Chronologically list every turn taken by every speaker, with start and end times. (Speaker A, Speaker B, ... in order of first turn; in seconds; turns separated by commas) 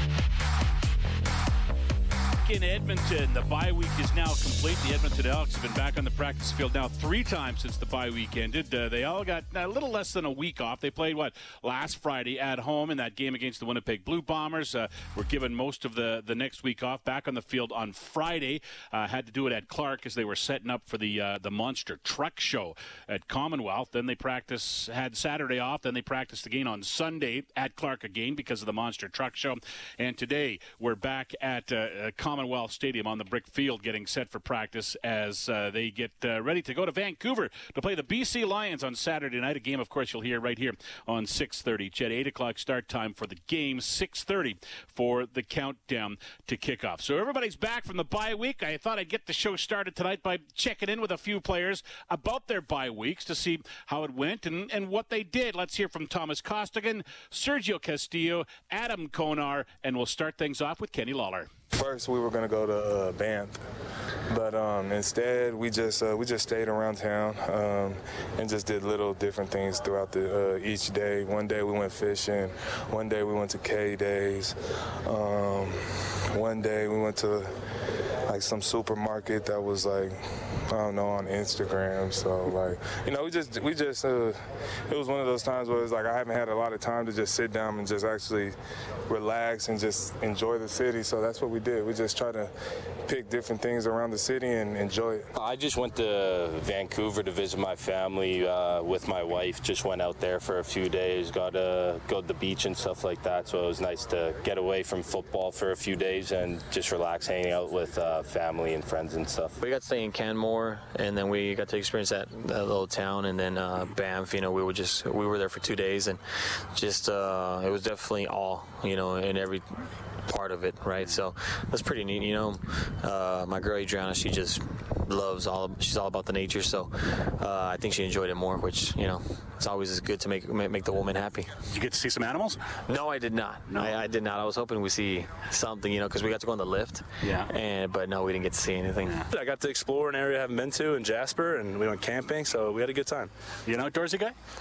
Speaker A: 2.4-61.5, Speaker B: 61.7-63.6, Speaker B: 64.3-74.5, Speaker B: 75.0-75.8, Speaker B: 76.3-77.5, Speaker B: 78.3-88.5, Speaker B: 89.1-92.5, Speaker B: 93.0-95.3, Speaker C: 95.3-109.6, Speaker D: 109.6-131.5, Speaker A: 131.7-132.6, Speaker D: 132.9-139.2, Speaker A: 133.7-133.9, Speaker A: 137.2-137.5, Speaker E: 139.3-143.3, Speaker A: 143.7-144.3